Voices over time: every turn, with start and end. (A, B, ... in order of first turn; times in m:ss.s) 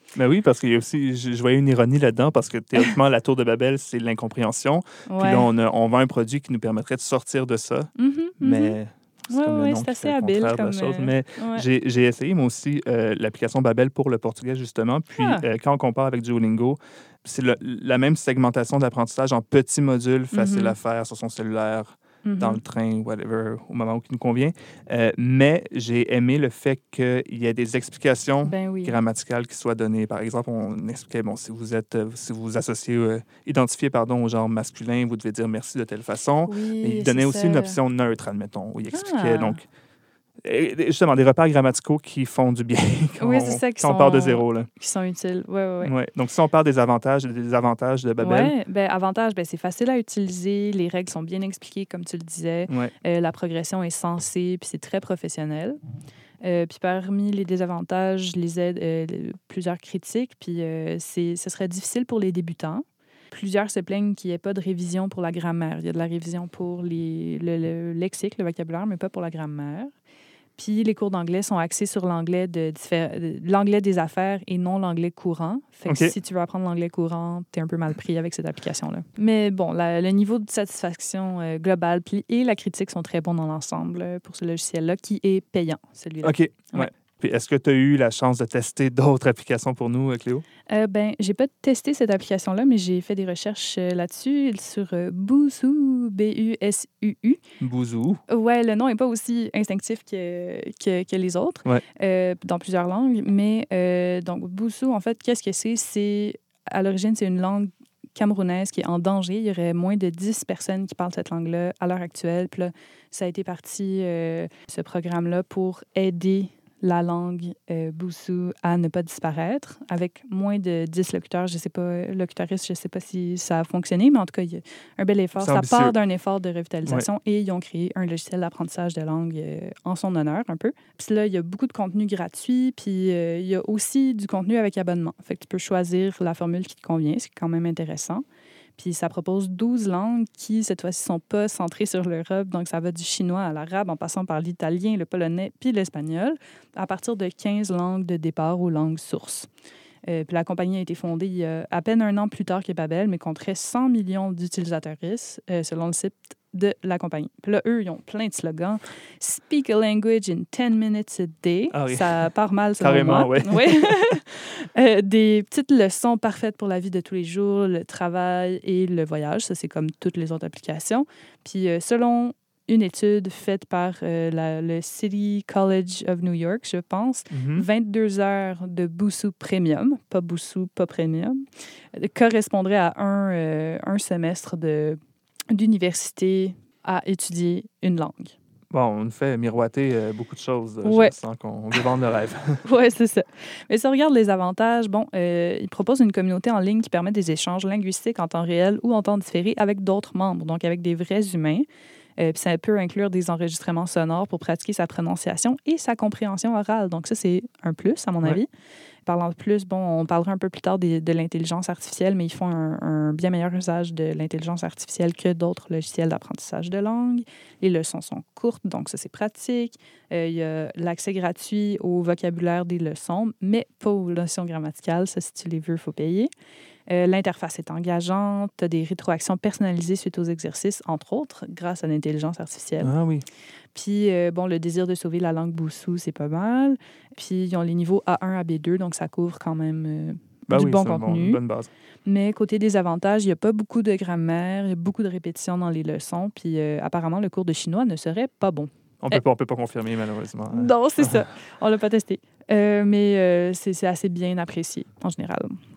0:00.1-0:39.6 A
0:05.1-0:05.5 B
0:08.0-0:08.8 B
0:09.3-0:11.6 B
0:15.2-0:15.4 B
0:20.3-0:20.8 B
0:22.2-0:22.6 B
0:28.4-0:29.0 B
0:36.5-0:37.8 B
0:38.9-0:39.6 B
0:40.4-0:44.7 A
0:43.2-0:45.9 B
0:45.8-0:48.5 A
0:48.2-0:55.8 B
0:56.4-1:09.9 B
1:10.6-1:26.9 B
1:15.9-1:16.1 A
1:26.2-1:30.4 A
1:30.7-1:37.4 B
1:37.6-1:38.2 A
1:38.3-2:18.2 B
2:05.4-2:05.9 A
2:18.8-2:29.5 B
2:30.1-3:05.0 B
2:41.7-2:42.1 A
2:42.8-2:43.9 A
2:57.3-2:57.6 A
3:05.5-3:08.3 B
3:08.7-3:12.6 A
3:10.8-3:11.1 B
3:12.6-3:21.7 B
3:22.2-3:28.5 B
3:29.0-3:46.3 B
3:46.9-3:52.9 B
3:52.8-3:53.2 A
3:53.7-4:01.4 B
4:00.5-4:01.7 A
4:02.0-4:09.2 B
4:09.0-4:11.2 A
4:10.5-4:15.6 B